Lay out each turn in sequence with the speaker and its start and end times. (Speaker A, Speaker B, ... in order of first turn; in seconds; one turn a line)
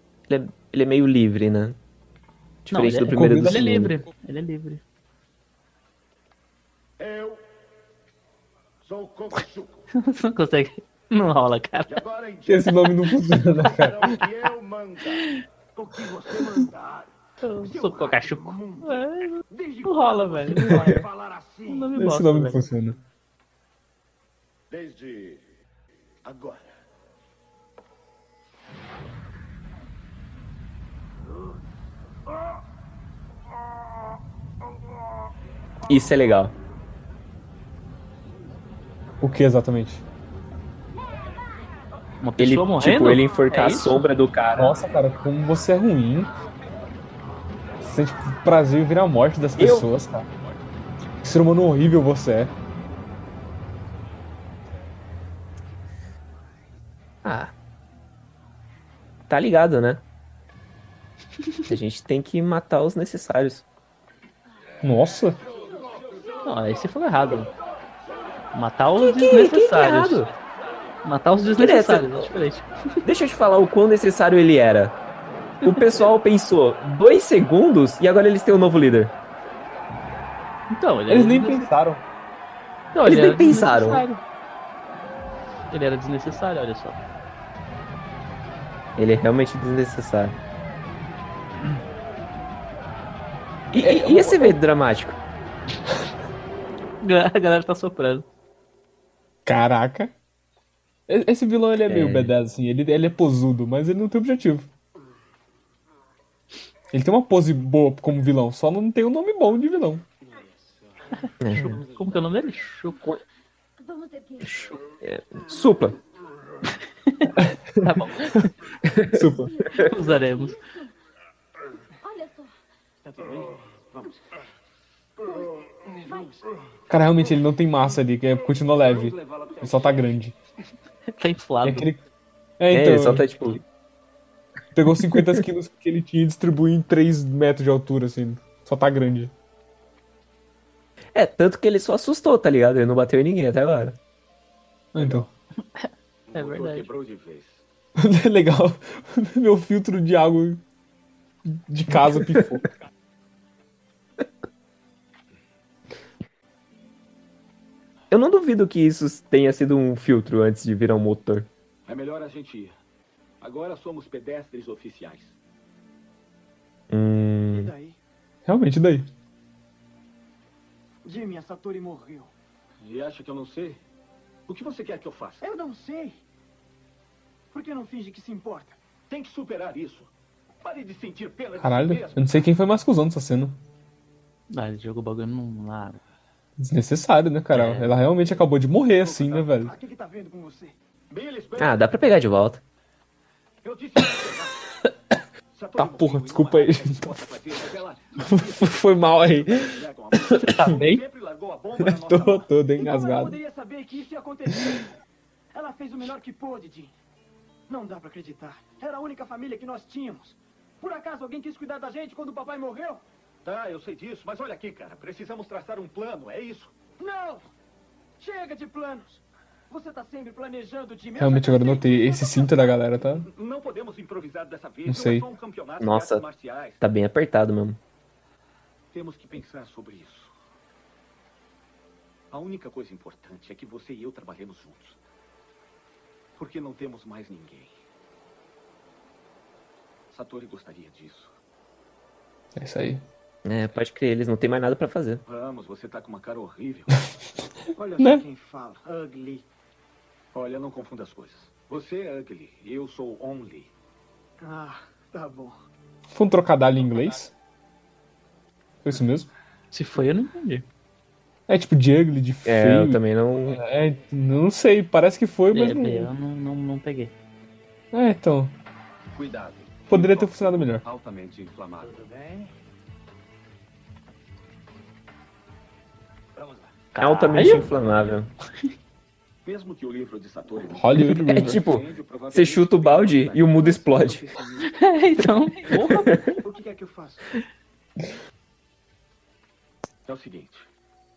Speaker A: 0.3-1.8
Speaker A: 2.6-3.9
Speaker B: 2.7-4.8
Speaker C: 2.8-3.9
Speaker D: 7.0-7.5
Speaker D: 8.8-9.9
Speaker B: 9.9-12.0
Speaker D: 11.9-15.4
Speaker C: 12.5-14.1
Speaker E: 15.8-16.7
Speaker B: 17.4-21.0
Speaker E: 17.7-18.8
Speaker E: 19.9-21.7
Speaker B: 21.7-22.7
Speaker C: 22.0-22.9
Speaker D: 24.7-25.5
Speaker D: 26.2-26.7
Speaker A: 35.9-36.5
Speaker C: 39.2-40.0
Speaker B: 42.2-44.0
Speaker A: 42.4-44.8
Speaker C: 44.6-46.3
Speaker C: 47.8-50.3
Speaker A: 49.6-49.9
Speaker C: 51.2-52.5
Speaker A: 57.2-57.5
Speaker A: 59.3-60.0
Speaker A: 61.7-63.6
Speaker C: 64.8-65.4
Speaker B: 66.4-67.5
Speaker B: 68.5-70.3
Speaker A: 69.0-70.3
Speaker B: 71.0-72.7
Speaker A: 71.5-72.3
Speaker A: 73.0-75.0
Speaker A: 75.6-79.1
Speaker B: 80.7-81.7
Speaker C: 81.1-82.0
Speaker B: 82.9-84.2
Speaker A: 83.0-84.0
Speaker B: 85.7-87.0
Speaker A: 89.0-90.4
Speaker A: 93.7-95.2
Speaker C: 93.8-94.6
Speaker B: 97.0-98.2
Speaker C: 99.5-100.1
Speaker C: 101.1-104.7
Speaker A: 101.9-102.3
Speaker C: 106.9-110.0
Speaker E: 110.2-110.8
Speaker A: 111.4-111.8
Speaker B: 111.5-113.1
Speaker E: 111.9-112.6
Speaker F: 113.8-115.0
Speaker A: 114.5-116.0
Speaker B: 117.1-118.3
Speaker C: 117.4-118.5
Speaker A: 118.8-119.2
Speaker C: 119.1-119.5
Speaker F: 119.3-120.9
Speaker B: 119.8-120.6
Speaker F: 122.0-122.5
Speaker G: 123.0-124.2
Speaker F: 125.2-125.6
Speaker G: 125.7-126.5
Speaker F: 126.1-126.3
Speaker C: 126.9-130.3
Speaker E: 128.8-130.1
Speaker B: 131.2-131.9
Speaker C: 131.6-132.0
Speaker C: 132.6-133.3
Speaker A: 132.7-133.6
Speaker C: 134.8-139.3
Speaker A: 135.1-135.4
Speaker A: 141.2-144.0
Speaker C: 144.9-145.3
Speaker E: 145.0-145.3
Speaker B: 145.8-146.9
Speaker E: 146.3-147.6
Speaker C: 148.0-150.6
Speaker C: 151.5-152.7
Speaker A: 152.1-152.5
Speaker A: 158.1-161.5
Speaker E: 161.9-162.8
Speaker E: 163.4-165.4
Speaker A: 166.9-167.7
Speaker G: 167.5-168.0
Speaker C: 168.4-169.1
Speaker G: 171.0-172.3
Speaker E: 172.8-173.8
Speaker E: 174.5-175.4
Speaker G: 175.4-176.2
Speaker G: 177.5-178.8
Speaker E: 179.1-180.1
Speaker E: 180.6-182.5
Speaker C: 181.6-183.6
Speaker B: 184.5-186.0
Speaker C: 186.6-189.7
Speaker B: 187.5-188.0
Speaker E: 189.1-189.5
Speaker G: 189.6-190.8
Speaker E: 191.1-192.1
Speaker A: 191.6-192.6
Speaker E: 193.6-194.6
Speaker E: 195.6-202.5
Speaker C: 195.8-197.3
Speaker C: 198.2-201.0
Speaker B: 200.4-200.9
Speaker C: 201.8-203.4
Speaker G: 202.8-204.9
Speaker G: 205.5-206.9
Speaker G: 207.7-213.0
Speaker E: 213.4-216.7
Speaker G: 217.0-217.5
Speaker G: 218.2-222.7
Speaker C: 221.2-223.3
Speaker E: 223.3-226.8
Speaker C: 224.9-225.3
Speaker A: 225.8-226.2
Speaker A: 226.8-227.8
Speaker E: 228.9-230.3
Speaker E: 232.3-235.0
Speaker E: 236.4-237.7
Speaker E: 240.1-241.3
Speaker C: 242.6-243.0
Speaker A: 243.4-245.2
Speaker E: 245.3-247.1
Speaker G: 247.8-249.5
Speaker C: 248.0-248.2
Speaker E: 250.3-253.7
Speaker G: 254.4-255.6
Speaker C: 256.1-257.3
Speaker C: 258.8-259.3
Speaker B: 259.7-260.6
Speaker C: 261.5-266.1
Speaker A: 262.4-263.6
Speaker B: 265.5-267.1
Speaker C: 267.9-268.5
Speaker E: 269.1-272.5
Speaker C: 269.9-270.8
Speaker E: 276.4-276.7
Speaker B: 276.9-277.7
Speaker A: 277.0-278.3
Speaker E: 279.4-283.6
Speaker C: 280.7-281.6
Speaker A: 281.1-284.2
Speaker G: 283.5-284.8
Speaker B: 284.7-286.4
Speaker G: 286.4-287.2
Speaker E: 290.1-290.7